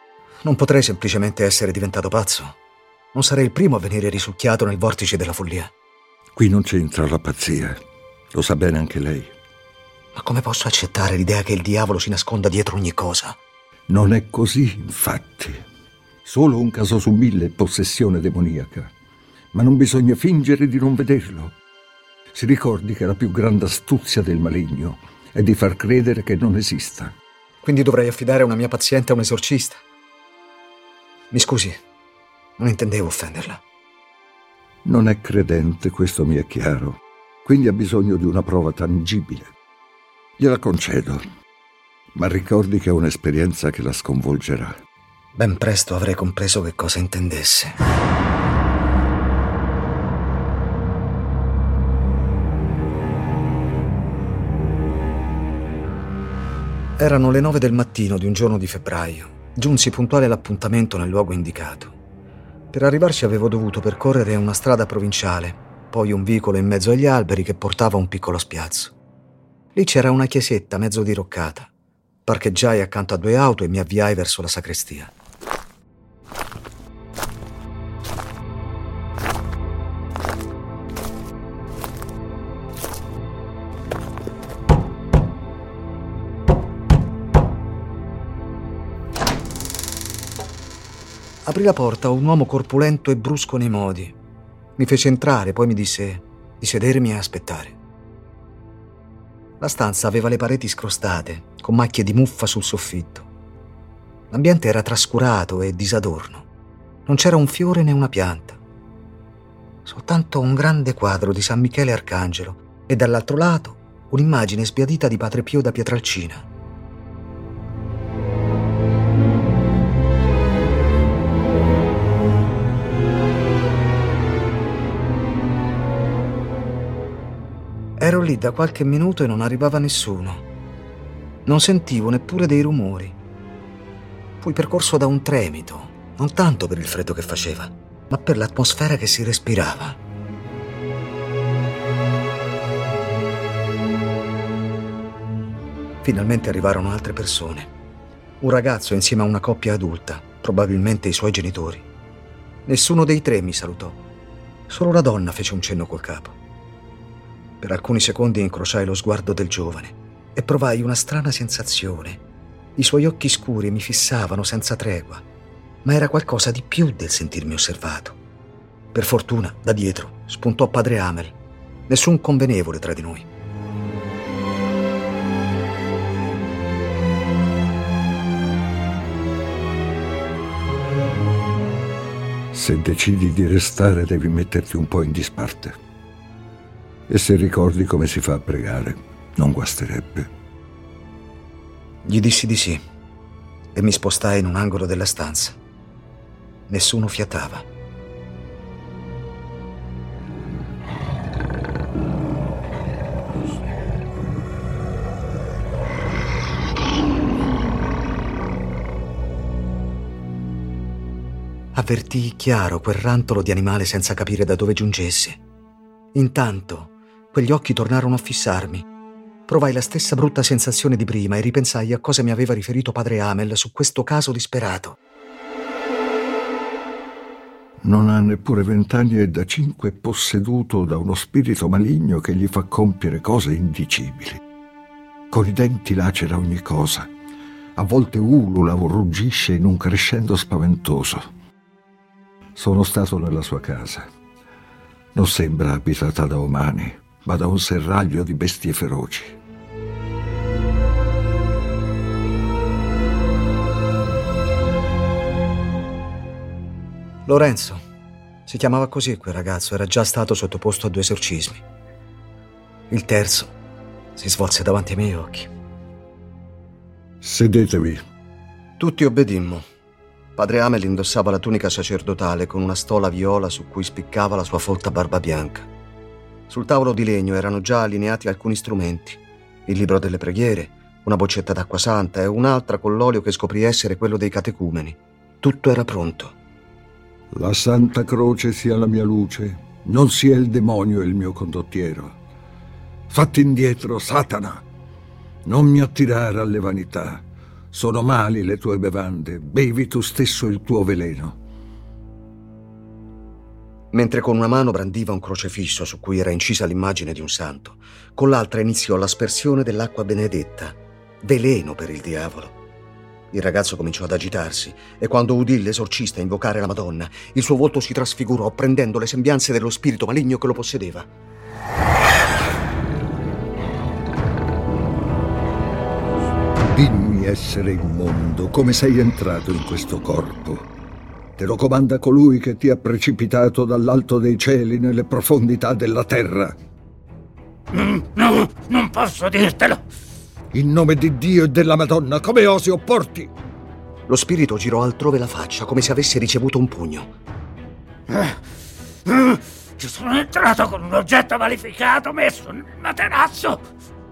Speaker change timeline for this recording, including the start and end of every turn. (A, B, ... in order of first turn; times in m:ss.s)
0:00.4-0:02.6 A
0:03.1-0:05.7 A
0:06.4-0:07.8 B
0:08.3-0:09.3 B
0:10.2-0:13.4 A
0:13.9-0:15.6 B
0:16.2-0:18.9 B
0:19.5-0:21.5 B
0:22.3-0:27.1 B
0:27.6-0:29.8 A
0:31.3-0:31.8 A
0:32.6-0:33.6 A
0:34.8-0:39.5 B
0:40.4-0:41.2 B
0:42.1-0:44.8 B
0:45.4-0:47.8 A
0:57.0-1:01.9 A
1:02.7-1:08.9 A
1:09.8-1:11.7 A
1:12.3-1:15.1 A
1:31.4-1:34.2 A
1:34.8-1:37.8 A
1:39.6-1:43.3 A
1:44.3-1:46.5 A
1:47.1-1:48.6 A
1:49.8-1:56.5 A
2:08.0-2:10.4 A
2:11.5-2:13.2 A
2:14.4-2:20.0 A
2:26.0-2:27.7 A
2:28.4-2:31.9 A
2:32.7-2:34.0 A
2:34.7-2:36.4 A
2:37.6-2:42.2 A
2:42.8-2:45.2 A
2:45.8-2:48.2 A
2:48.9-2:51.4 A
2:51.9-2:53.3 A
3:02.5-3:05.8 B
3:07.1-3:10.3 B
3:12.0-3:12.8 A
3:13.7-3:15.6 A
3:16.7-3:17.7 A
3:31.7-3:35.4 A
3:36.1-3:38.9 A
3:39.5-3:45.0 A
3:47.8-3:54.4 B
3:55.3-3:57.1 B
3:57.8-4:01.3 B
4:02.6-4:04.1 B
4:05.2-4:09.4 B
4:17.3-4:17.8 A
4:18.5-4:21.6 A
4:22.9-4:23.6 A
4:24.2-4:25.5 A
4:27.2-4:28.0 B
4:28.8-4:29.6 A
4:30.4-4:35.7 A
4:36.5-4:46.4 A
4:47.3-4:52.2 B
4:53.1-4:54.6 B
4:55.5-5:01.4 B
5:03.9-5:12.6 A
5:13.3-5:21.1 A
5:26.7-5:30.7 B
5:31.4-5:36.6 B
5:37.7-5:39.8 C
5:40.5-5:43.3 B
5:44.1-5:47.1 A
5:48.1-5:48.4 C
5:49.1-5:53.6 C